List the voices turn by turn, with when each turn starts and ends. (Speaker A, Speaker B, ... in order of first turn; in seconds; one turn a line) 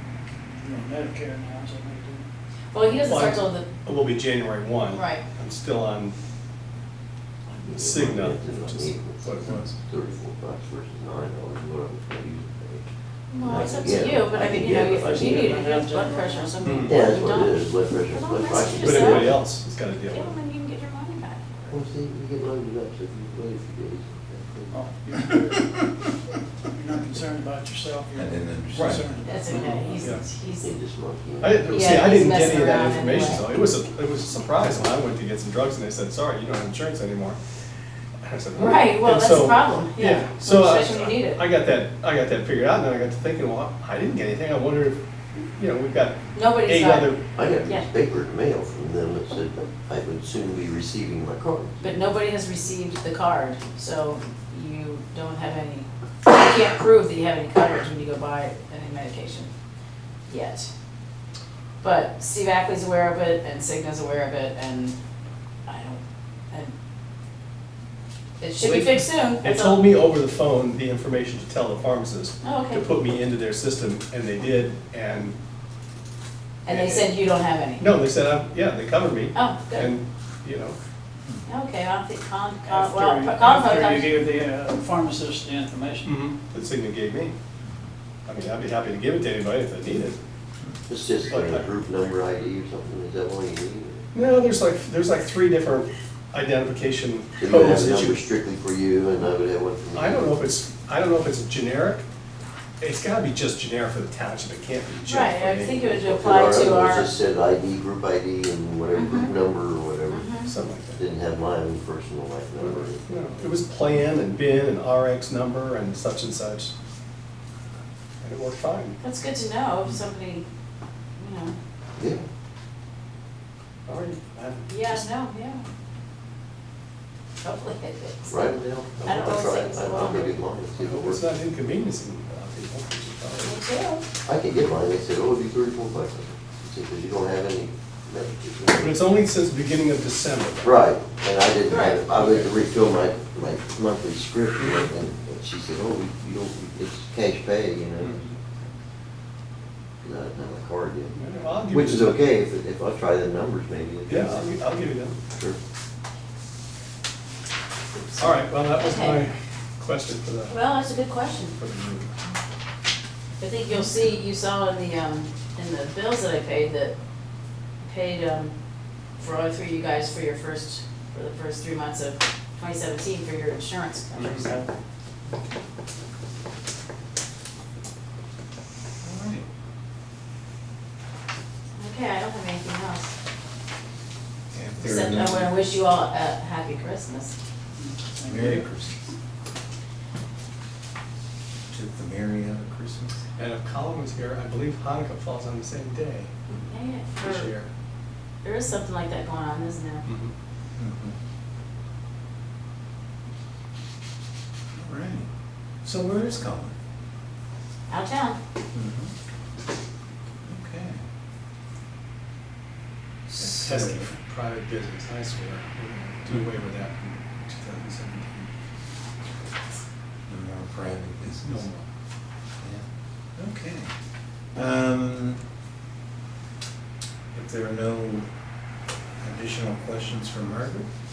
Speaker A: 0.6-2.3
Speaker B: 2.7-3.7
Speaker C: 3.0-6.2
Speaker B: 4.9-5.2
Speaker D: 7.5-12.9
Speaker C: 7.7-9.8
Speaker B: 13.3-19.4
Speaker D: 13.4-15.6
Speaker A: 14.9-16.8
Speaker C: 16.6-16.9
Speaker D: 16.9-19.4
Speaker C: 18.8-20.4
Speaker B: 20.1-21.5
Speaker D: 21.7-24.8
Speaker A: 24.7-25.8
Speaker A: 26.7-30.2
Speaker E: 28.1-29.1
Speaker C: 28.7-30.2
Speaker B: 29.2-30.7
Speaker D: 30.6-32.1
Speaker C: 31.4-37.4
Speaker B: 31.7-33.5
Speaker C: 38.2-47.2
Speaker B: 38.6-41.4
Speaker B: 46.3-47.9
Speaker D: 47.4-52.0
Speaker B: 51.8-59.5
Speaker B: 60.3-60.7
Speaker B: 61.8-65.0
Speaker B: 65.7-66.7
Speaker B: 68.4-69.9
Speaker C: 68.6-75.4
Speaker B: 72.4-72.9
Speaker B: 76.7-77.9
Speaker C: 76.7-77.1
Speaker C: 77.8-80.8
Speaker B: 79.3-79.9
Speaker B: 81.5-84.1
Speaker A: 82.7-86.2
Speaker C: 86.0-87.3
Speaker C: 88.3-90.2
Speaker D: 90.9-94.0
Speaker C: 91.3-91.7
Speaker C: 94.1-98.2
Speaker D: 97.4-100.3
Speaker C: 99.9-102.0
Speaker C: 102.8-106.0
Speaker B: 105.1-107.1
Speaker D: 105.8-110.3
Speaker B: 108.9-109.3
Speaker B: 110.1-110.5
Speaker C: 110.5-111.0
Speaker D: 111.0-113.0
Speaker C: 112.6-116.7
Speaker C: 118.2-119.0
Speaker B: 119.0-120.5
Speaker B: 121.2-121.5
Speaker D: 122.0-122.3
Speaker C: 123.9-125.0
Speaker B: 124.7-125.7
Speaker B: 127.4-128.5
Speaker D: 128.3-131.2
Speaker B: 129.1-130.4
Speaker C: 130.8-133.6
Speaker B: 133.4-134.0
Speaker D: 134.2-139.0
Speaker C: 138.8-140.8
Speaker D: 140.6-148.2
Speaker B: 141.7-142.0
Speaker C: 142.1-142.5
Speaker C: 144.6-144.9
Speaker C: 148.0-148.4
Speaker D: 150.0-154.6
Speaker C: 151.1-152.2
Speaker C: 154.1-155.2
Speaker D: 155.2-155.6
Speaker C: 158.2-160.6
Speaker B: 158.8-159.2
Speaker B: 160.5-161.6
Speaker C: 161.5-162.2
Speaker B: 163.4-166.9
Speaker B: 167.8-168.5
Speaker B: 169.2-174.6
Speaker C: 174.2-174.5
Speaker E: 179.0-179.4
Speaker B: 181.8-183.1
Speaker E: 184.5-185.5
Speaker B: 184.8-187.3
Speaker A: 187.8-188.7
Speaker E: 188.2-189.0
Speaker E: 191.7-193.2
Speaker C: 193.4-196.3
Speaker B: 196.7-197.5
Speaker C: 197.2-197.7
Speaker B: 198.4-200.1
Speaker C: 200.1-200.3
Speaker E: 200.8-201.2
Speaker E: 204.8-205.3
Speaker E: 205.8-206.8
Speaker B: 207.9-208.4
Speaker E: 208.7-209.1
Speaker E: 210.4-211.0
Speaker E: 213.3-214.1
Speaker C: 213.4-218.5
Speaker E: 220.3-221.7
Speaker C: 221.4-221.8
Speaker E: 222.6-223.9
Speaker E: 224.5-225.4
Speaker E: 227.3-228.3
Speaker E: 229.2-230.9